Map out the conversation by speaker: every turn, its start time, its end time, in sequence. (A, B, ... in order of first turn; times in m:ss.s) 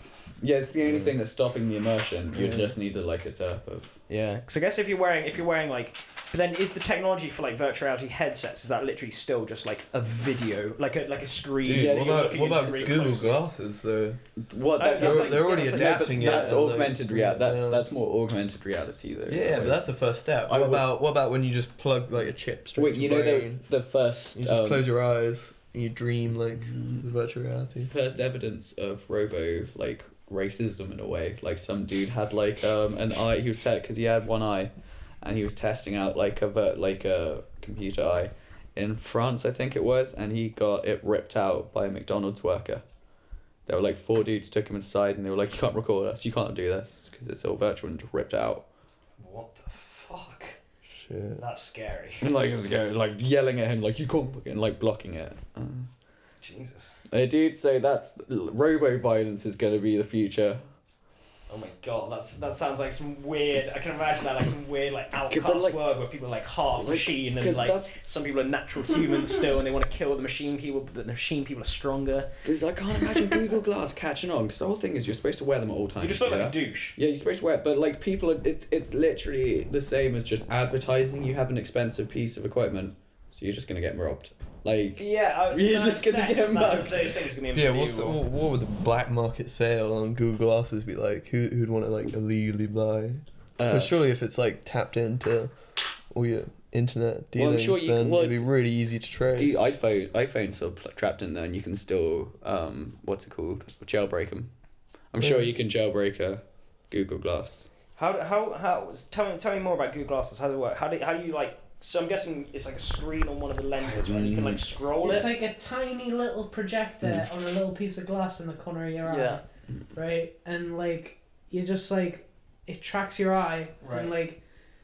0:00.4-0:04.0 A
0:02.3-0:02.7 B
0:04.1-0:13.4 B
0:11.6-0:14.2 C
0:11.7-0:13.2 A
0:14.4-0:19.8 A
0:14.8-0:16.6 B
0:15.0-0:17.8 C
0:19.3-0:23.6 C
0:20.4-0:20.9 A
0:22.7-0:24.8 A
0:24.3-0:27.9 C
0:26.7-0:27.0 A
0:27.8-0:34.7 A
0:35.2-0:42.8 A
0:43.6-0:48.6 A
0:49.2-0:50.6 B
0:51.0-0:51.4 C
0:51.4-0:52.2 B
0:52.2-0:55.9 A
0:56.4-0:56.9 B
0:57.1-1:00.6 A
1:01.5-1:12.3 B
1:05.3-1:05.8 A
1:06.7-1:08.0 A
1:12.4-1:27.2 A
1:16.0-1:17.0 B
1:25.0-1:28.2 B
1:27.5-1:35.5 C
1:33.6-1:34.0 A
1:36.1-1:39.6 C
1:37.3-1:38.5 A
1:39.3-1:44.5 A
1:45.1-1:47.6 A
1:45.2-1:45.4 C
1:48.0-1:55.3 B
1:53.8-1:54.6 A
1:55.0-2:04.4 D
1:59.0-1:59.4 B
2:03.8-2:04.1 B